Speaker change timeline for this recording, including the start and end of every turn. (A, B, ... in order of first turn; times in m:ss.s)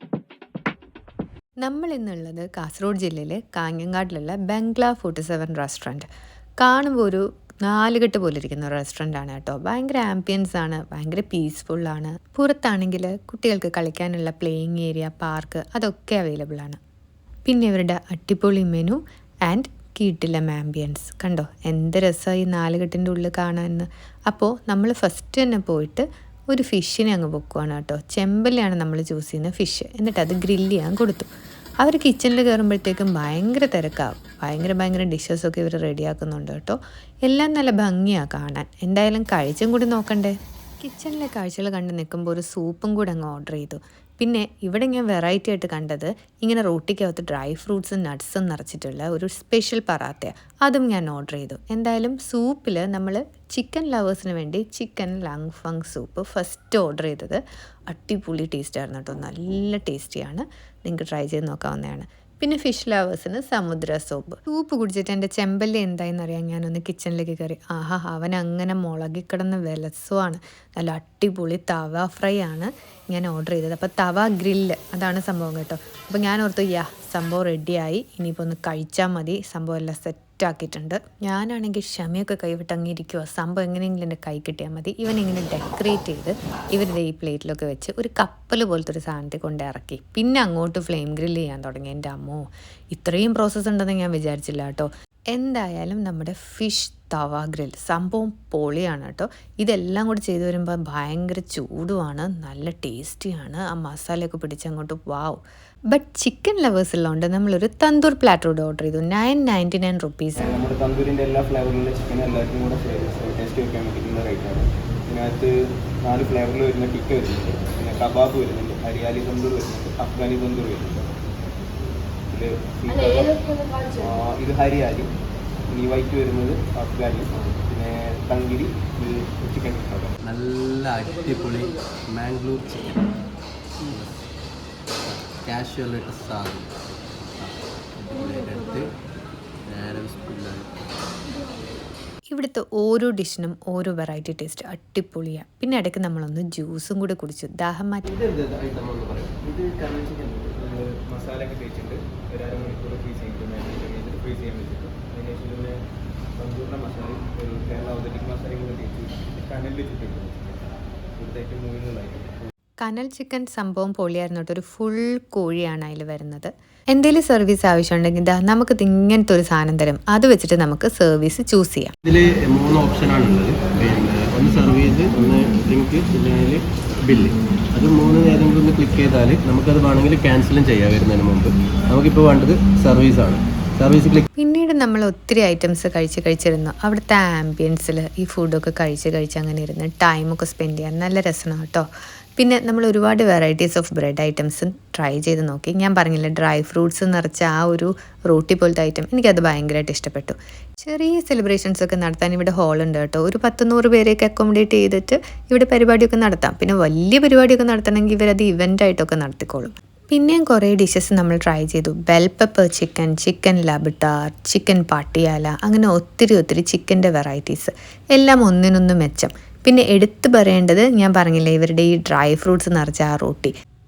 0:01.6-0:06.1 A
0:06.6-0:16.8 A
0:17.4-0:31.3 A
0:31.8-1:45.4 A
1:45.9-1:50.6 A
1:50.4-2:01.1 B
2:02.3-2:05.1 B
2:05.7-2:10.2 B
2:10.2-2:13.2 C
2:13.9-2:14.2 C
2:15.0-2:16.7 C
2:17.4-2:18.9 C
2:19.7-2:20.8 C
2:22.3-2:28.1 A
2:28.0-2:29.4 C
2:29.4-2:35.8 B
2:36.4-2:42.5 B
2:42.8-2:51.9 A
2:52.0-3:04.3 C
3:04.4-3:43.5 A